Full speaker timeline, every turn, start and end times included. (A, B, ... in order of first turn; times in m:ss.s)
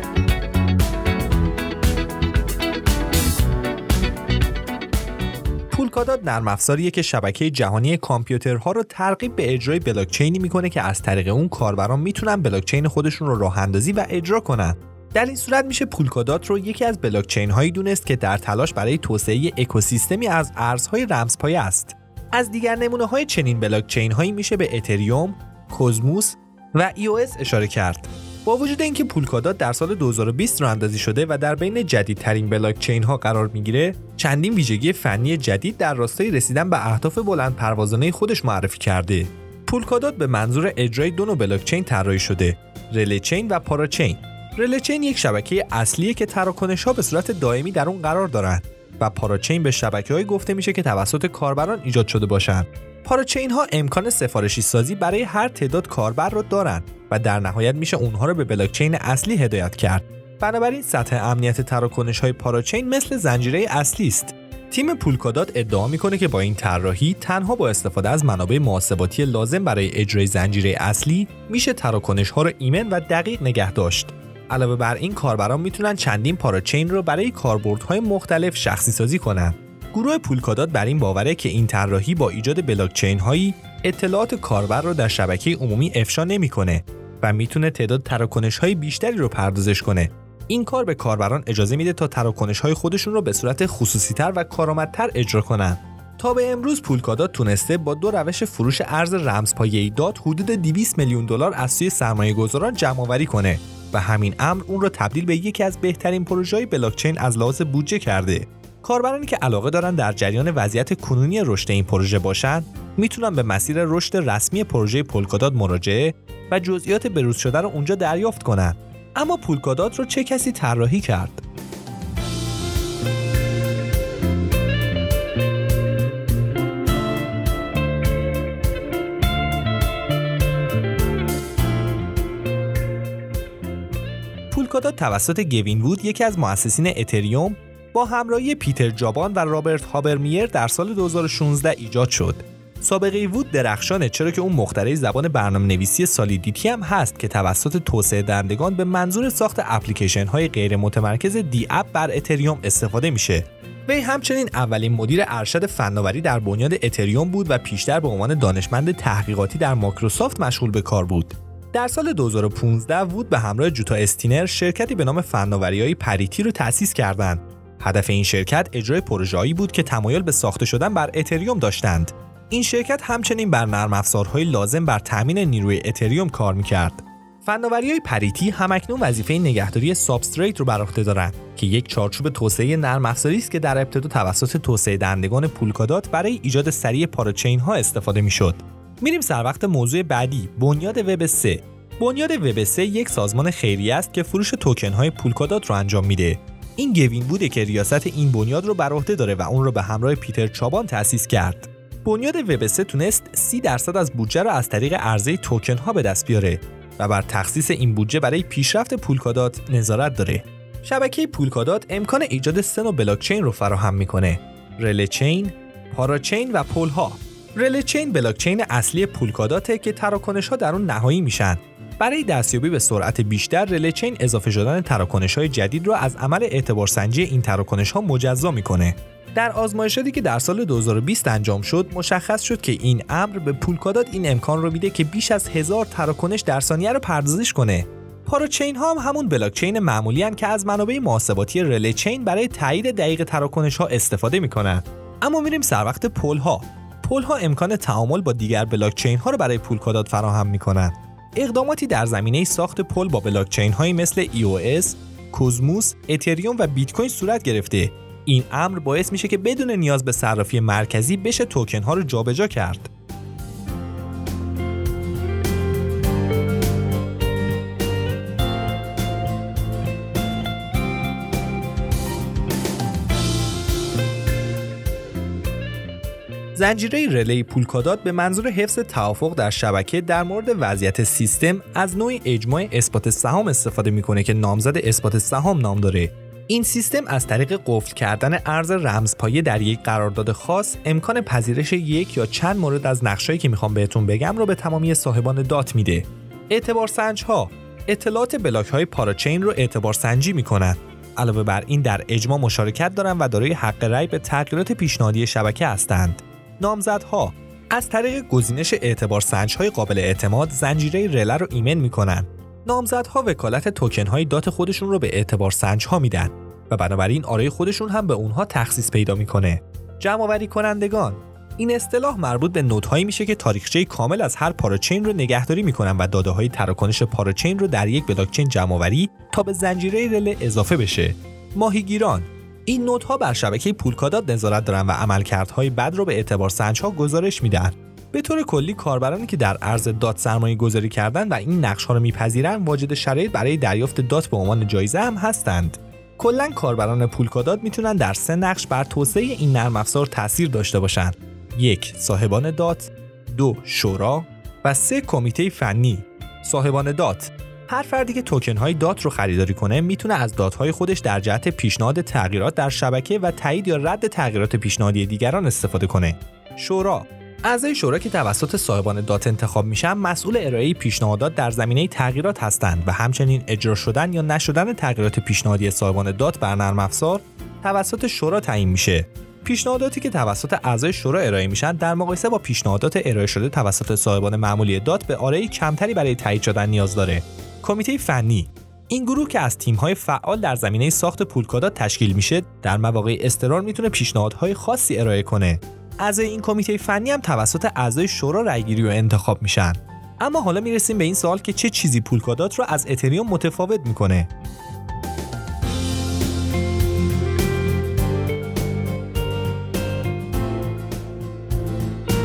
0:05.7-2:01.4 A
2:14.5-4:22.9 A
4:36.6-6:44.3 A